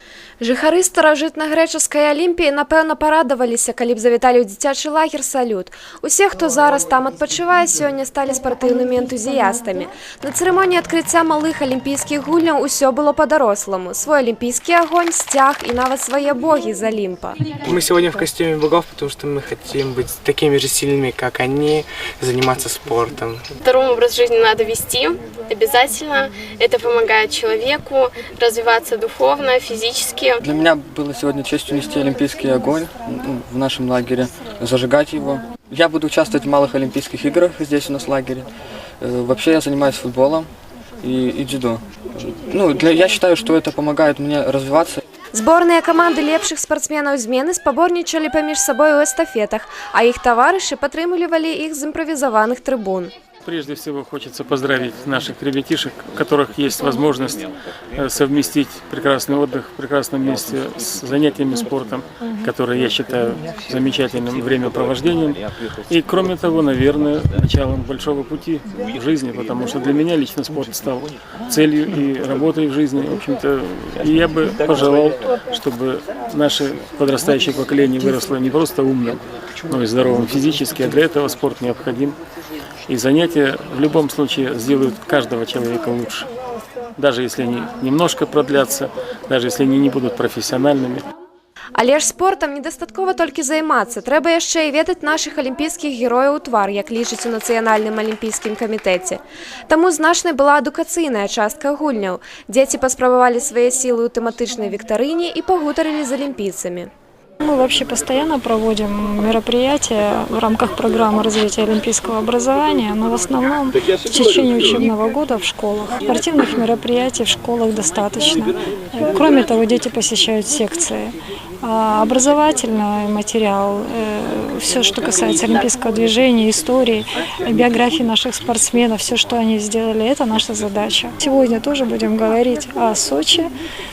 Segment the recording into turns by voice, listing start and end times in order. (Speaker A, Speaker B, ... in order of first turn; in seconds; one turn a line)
Speaker A: 0.4-17.4
Speaker B: 17.6-23.4
Speaker C: 23.6-30.4
Speaker D: 30.4-38.5
Speaker D: 39.0-40.5
Speaker D: 41.0-45.0
Speaker A: 45.3-53.1
Speaker E: 53.4-82.2
Speaker E: 82.9-86.3
Speaker E: 87.0-91.0
Speaker A: 91.8-106.9
Speaker F: 107.4-133.5